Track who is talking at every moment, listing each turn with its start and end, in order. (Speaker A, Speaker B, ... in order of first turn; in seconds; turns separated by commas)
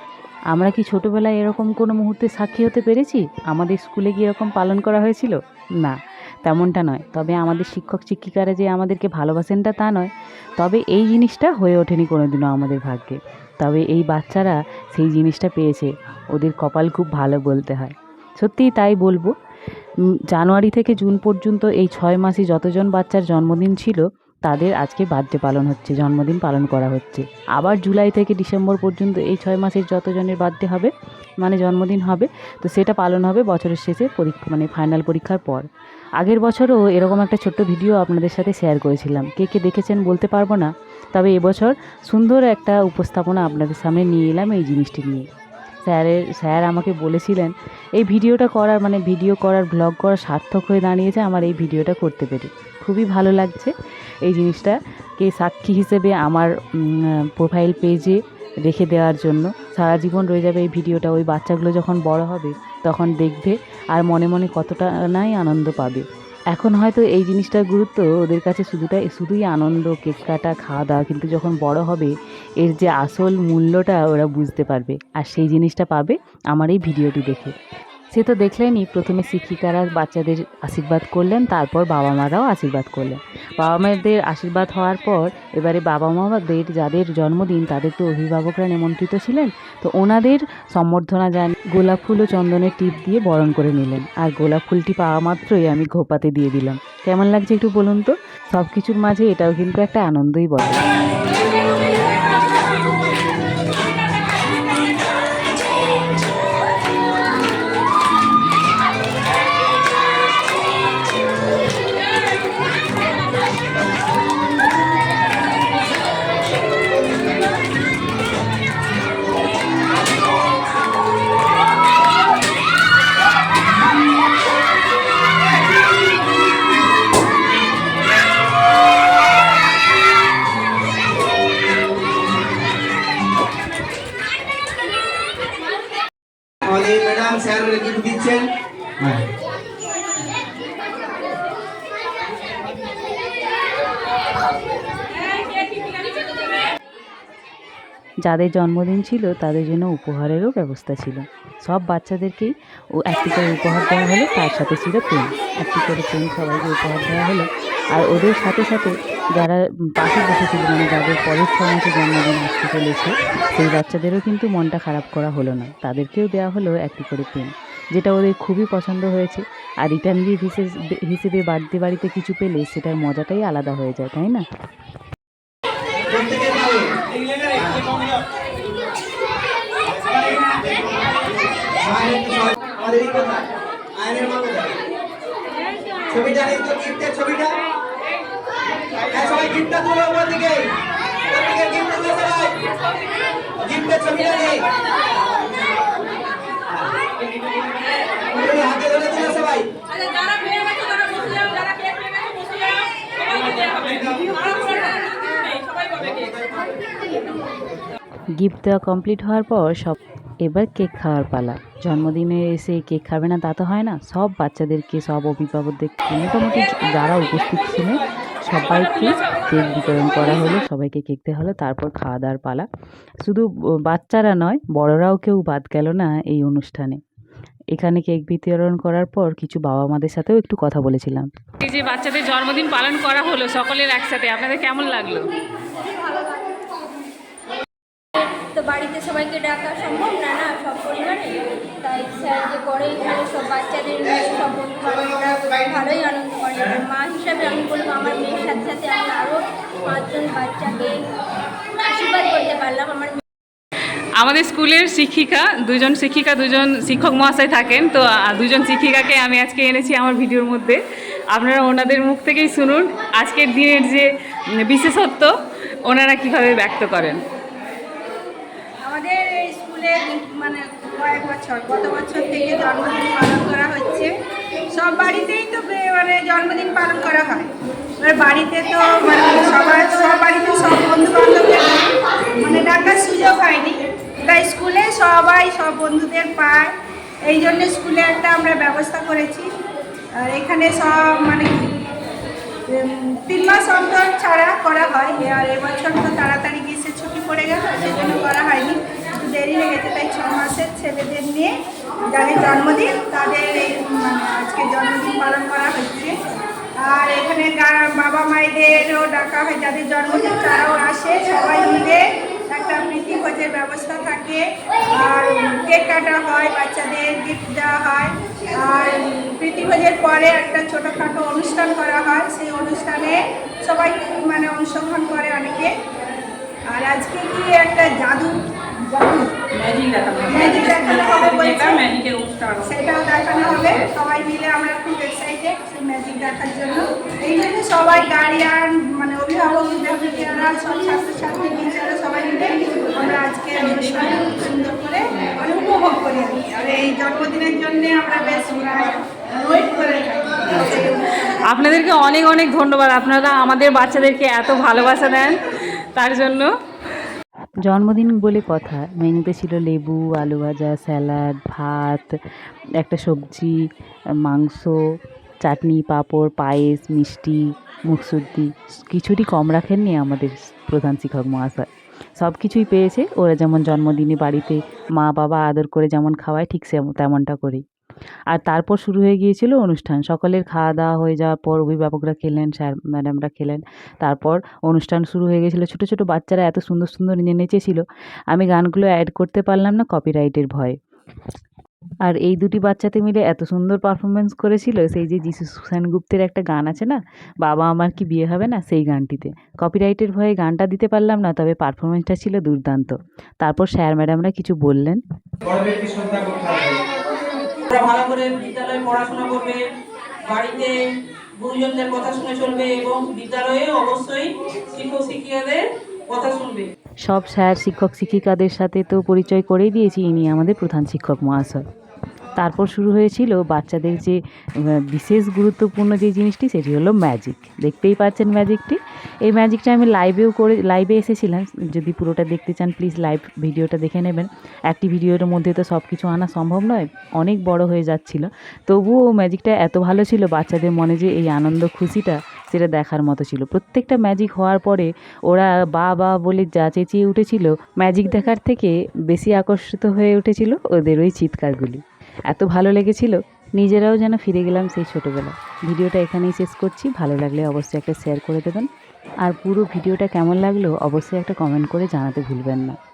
Speaker A: 0.5-19.3, Speaker A: 20.3-35.6, Speaker A: 36.2-45.2, Speaker A: 45.9-53.7, Speaker A: 54.2-77.5, Speaker A: 78.1-100.8, Speaker B: 136.6-138.5, Speaker A: 148.2-174.4, Speaker B: 176.1-177.0, Speaker B: 177.5-178.0, Speaker B: 181.8-184.8, Speaker B: 186.1-187.6, Speaker B: 189.1-190.7, Speaker B: 191.3-192.6, Speaker B: 193.6-194.7, Speaker B: 198.2-199.7, Speaker B: 203.5-204.5, Speaker B: 205.8-206.5, Speaker A: 208.3-222.7, Speaker A: 223.2-227.0, Speaker A: 227.7-231.3, Speaker C: 231.6-235.3, Speaker D: 238.2-251.1, Speaker D: 251.8-253.2, Speaker C: 254.2-267.2, Speaker E: 268.8-274.1, Speaker E: 274.7-277.5, Speaker E: 278.0-289.5, Speaker E: 290.1-291.7, Speaker E: 292.7-301.5, Speaker E: 302.1-306.2, Speaker E: 306.8-325.7, Speaker E: 326.7-328.4, Speaker E: 328.9-329.3, Speaker C: 329.5-330.4, Speaker F: 329.7-330.2, Speaker E: 330.3-331.9, Speaker F: 330.8-332.6, Speaker E: 332.6-351.3, Speaker C: 350.6-356.5, Speaker A: 357.6-362.1, Speaker A: 362.8-363.6, Speaker A: 364.2-364.8, Speaker A: 365.4-371.7, Speaker A: 372.2-377.6, Speaker A: 378.3-390.8, Speaker A: 392.0-405.0, Speaker F: 405.5-406.8, Speaker F: 407.7-409.7, Speaker F: 410.2-410.8, Speaker F: 411.4-416.7, Speaker A: 417.0-421.6, Speaker A: 422.4-458.7, Speaker A: 459.2-462.8